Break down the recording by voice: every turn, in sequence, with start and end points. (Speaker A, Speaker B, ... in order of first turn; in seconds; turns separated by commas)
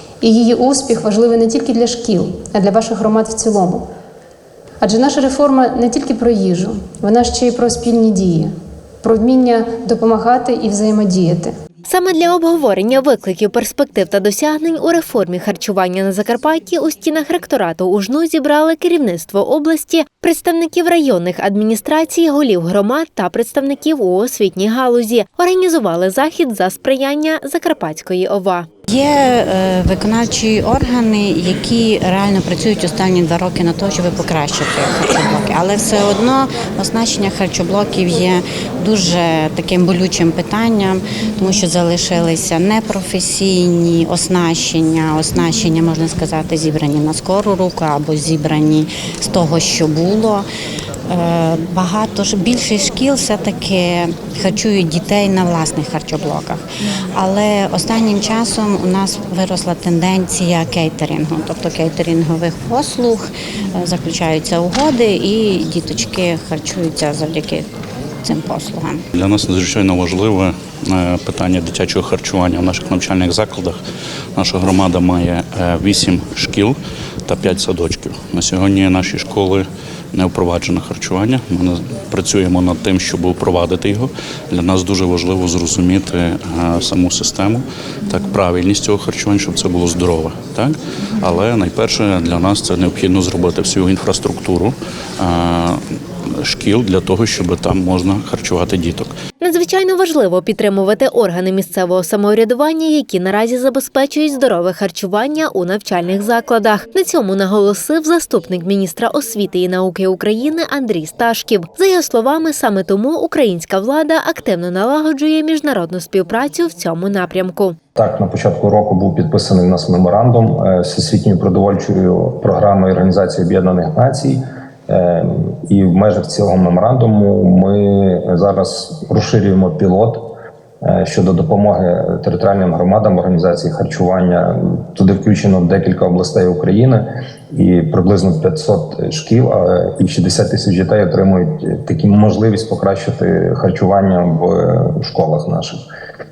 Speaker A: 0.2-3.8, Speaker A: 4.8-8.5, Speaker A: 9.0-11.5, Speaker B: 11.9-28.7, Speaker C: 28.9-50.5, Speaker C: 51.1-56.6, Speaker C: 57.2-67.7, Speaker C: 68.2-69.0, Speaker D: 69.2-73.8, Speaker D: 74.4-76.7, Speaker D: 77.3-79.6, Speaker D: 80.1-95.8, Speaker D: 96.5-99.1, Speaker B: 99.4-117.8, Speaker E: 118.0-130.3, Speaker E: 130.8-145.8